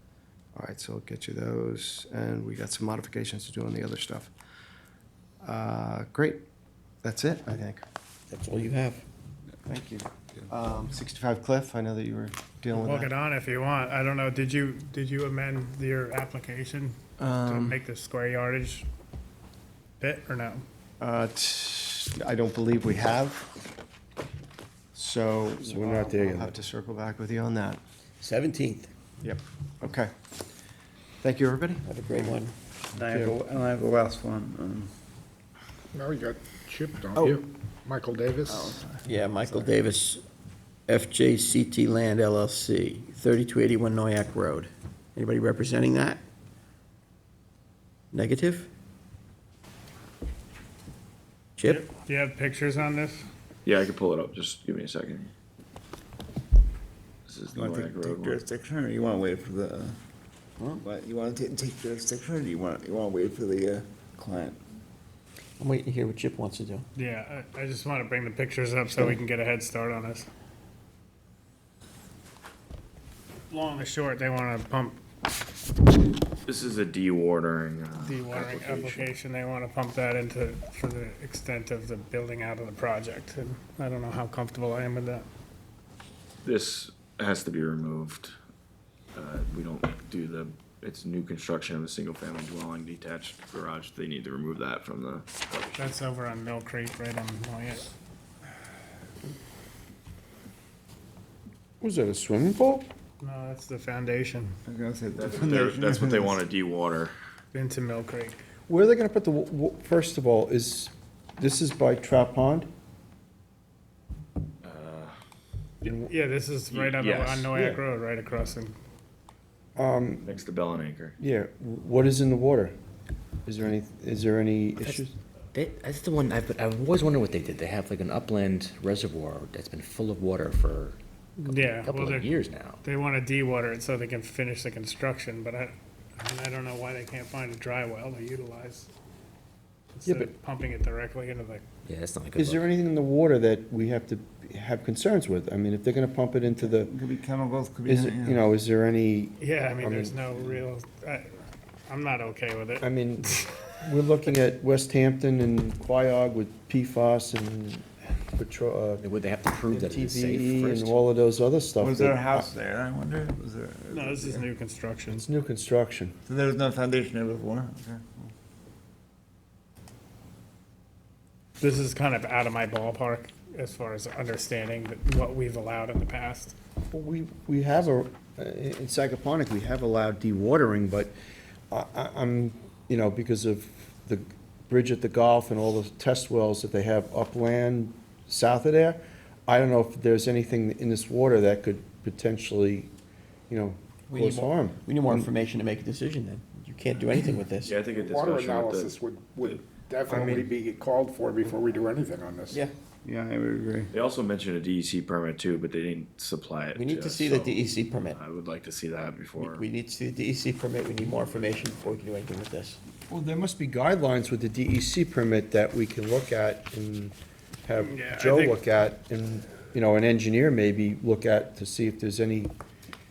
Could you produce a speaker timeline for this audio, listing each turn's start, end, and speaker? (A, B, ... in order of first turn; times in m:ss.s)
0:00.6-0:04.3 A
0:05.4-0:06.4 A
0:07.0-0:07.8 A
0:08.3-0:09.0 B
0:09.7-0:13.1 A
0:12.7-0:18.9 C
0:17.2-0:17.8 A
0:20.0-0:20.6 C
0:21.0-0:23.5 A
0:25.0-0:27.8 A
0:25.6-0:26.5 D
0:28.2-0:28.9 B
0:29.2-0:30.1 A
0:31.2-0:31.8 A
0:31.9-0:32.5 B
0:33.0-0:34.9 E
0:33.1-0:33.4 B
0:35.9-0:38.8 F
0:37.2-0:37.4 E
0:38.5-0:39.7 E
0:39.0-0:40.2 B
0:40.9-0:46.2 B
0:48.1-0:48.7 B
0:51.6-0:51.8 B
0:51.6-0:53.3 C
0:53.6-0:55.3 G
0:57.3-0:58.4 G
0:57.5-1:00.0 E
1:00.8-1:04.6 E
1:05.6-1:06.8 B
1:07.0-1:10.3 C
1:13.5-1:15.0 C
1:16.5-1:19.1 G
1:18.0-1:25.3 C
1:26.4-1:28.4 G
1:29.2-1:36.0 G
1:35.8-1:37.9 C
1:41.8-1:42.9 D
1:43.2-1:44.6 C
1:44.7-1:46.4 E
1:45.1-1:47.1 G
1:47.5-1:48.4 C
1:48.7-1:52.7 D
1:54.6-1:55.2 G
1:55.8-1:58.7 C
1:56.7-1:57.5 G
1:57.5-1:57.8 D
1:59.8-2:00.4 D
2:00.2-2:01.2 G
2:01.2-2:02.8 D
2:03.5-2:05.2 D
2:05.5-2:12.8 H
2:11.4-2:12.3 C
2:12.8-2:18.9 C
2:20.0-2:21.6 C
2:20.1-2:20.3 D
2:21.9-2:22.7 H
2:22.4-2:26.9 D
2:26.6-2:28.5 E
2:27.9-2:30.6 D
2:29.4-2:31.4 C
2:31.9-2:33.6 C
2:32.8-2:39.0 D
2:39.0-2:41.0 H
2:39.7-2:42.5 D
2:41.8-2:44.5 E
2:43.9-2:45.3 C
2:45.1-2:46.2 D
2:46.3-2:48.3 E
2:51.6-2:56.5 C
2:56.9-3:01.1 D
3:01.7-3:12.9 D
3:13.5-3:15.3 D
3:14.1-3:17.8 B
3:17.6-3:19.6 G
3:17.9-3:22.6 F
3:20.1-3:20.5 D
3:23.0-3:23.9 E
3:23.9-3:29.7 G
3:26.8-3:28.2 B
3:29.3-3:32.8 B
3:33.1-3:42.5 D
3:37.8-3:38.6 C